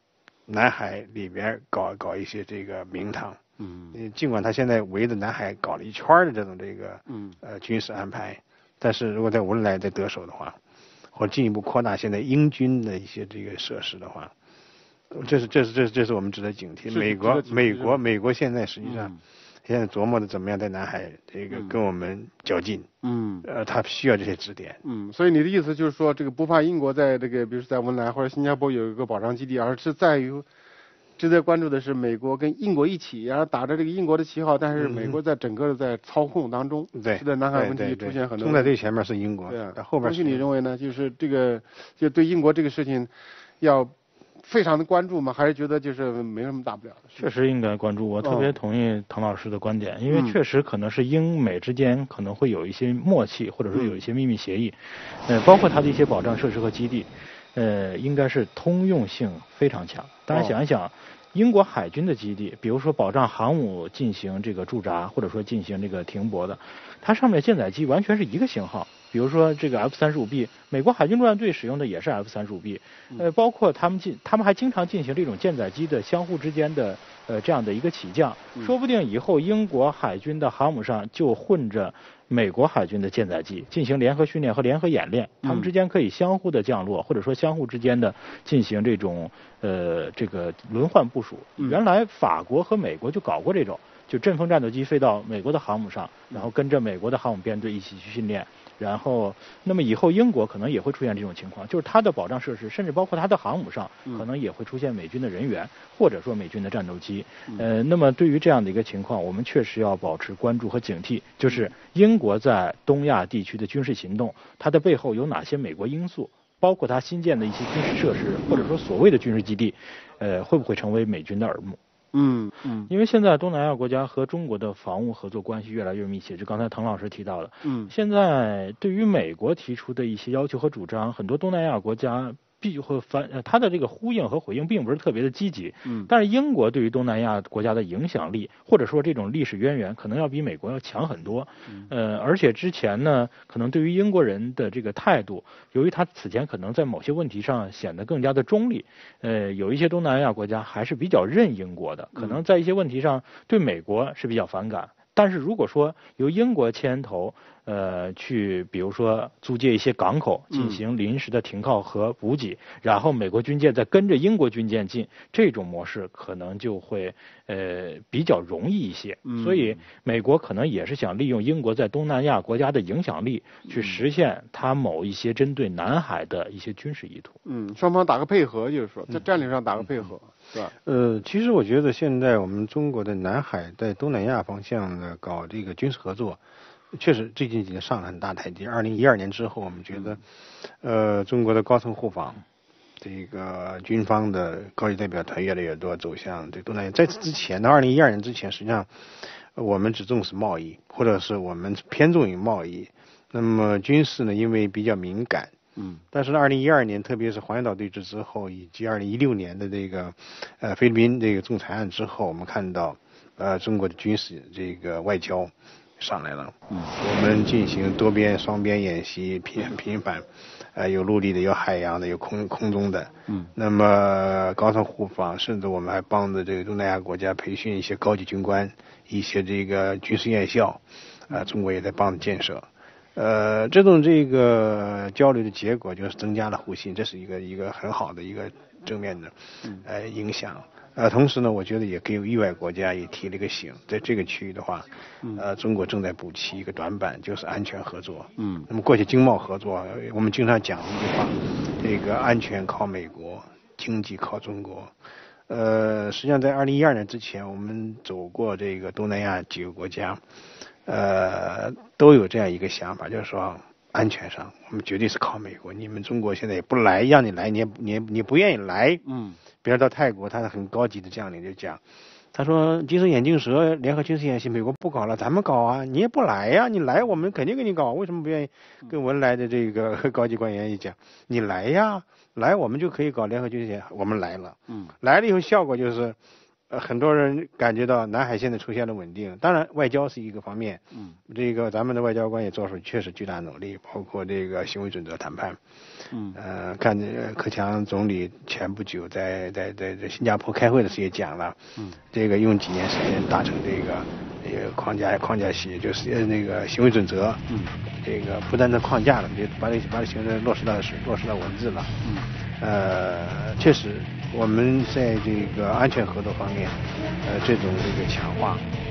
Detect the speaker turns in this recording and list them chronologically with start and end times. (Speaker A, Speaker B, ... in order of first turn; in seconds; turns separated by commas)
Speaker A: 0.5-3.4, Speaker B: 3.6-4.0, Speaker A: 3.9-10.6, Speaker B: 7.1-7.4, Speaker A: 11.1-14.3, Speaker A: 15.1-19.1, Speaker B: 16.9-18.0, Speaker B: 18.8-19.2, Speaker A: 19.6-22.9, Speaker B: 21.5-21.8, Speaker B: 23.0-23.5, Speaker A: 23.4-24.8, Speaker B: 24.8-30.4, Speaker B: 31.2-38.7, Speaker A: 34.8-35.2, Speaker A: 36.9-40.5, Speaker B: 39.5-47.2, Speaker C: 47.1-121.8, Speaker B: 48.2-48.5, Speaker B: 50.1-50.4, Speaker B: 53.7-54.0, Speaker B: 85.4-85.7, Speaker B: 122.1-122.9, Speaker C: 122.9-177.4, Speaker B: 127.6-127.9, Speaker B: 135.8-136.1, Speaker B: 152.2-152.4, Speaker B: 160.5-160.8, Speaker B: 169.2-169.8, Speaker B: 173.7-174.0, Speaker B: 177.4-180.7, Speaker A: 180.8-186.4, Speaker A: 186.9-190.2, Speaker B: 189.9-190.2, Speaker A: 190.8-192.4, Speaker A: 193.0-205.5, Speaker B: 205.8-206.0, Speaker A: 206.1-254.9, Speaker B: 248.4-248.7, Speaker A: 255.5-260.2, Speaker A: 260.8-269.0, Speaker B: 269.1-269.4, Speaker A: 269.6-271.8, Speaker A: 272.3-286.2, Speaker A: 286.7-295.6, Speaker B: 296.1-296.4, Speaker A: 296.3-311.9, Speaker B: 307.5-307.7, Speaker B: 312.0-312.3, Speaker A: 312.6-318.6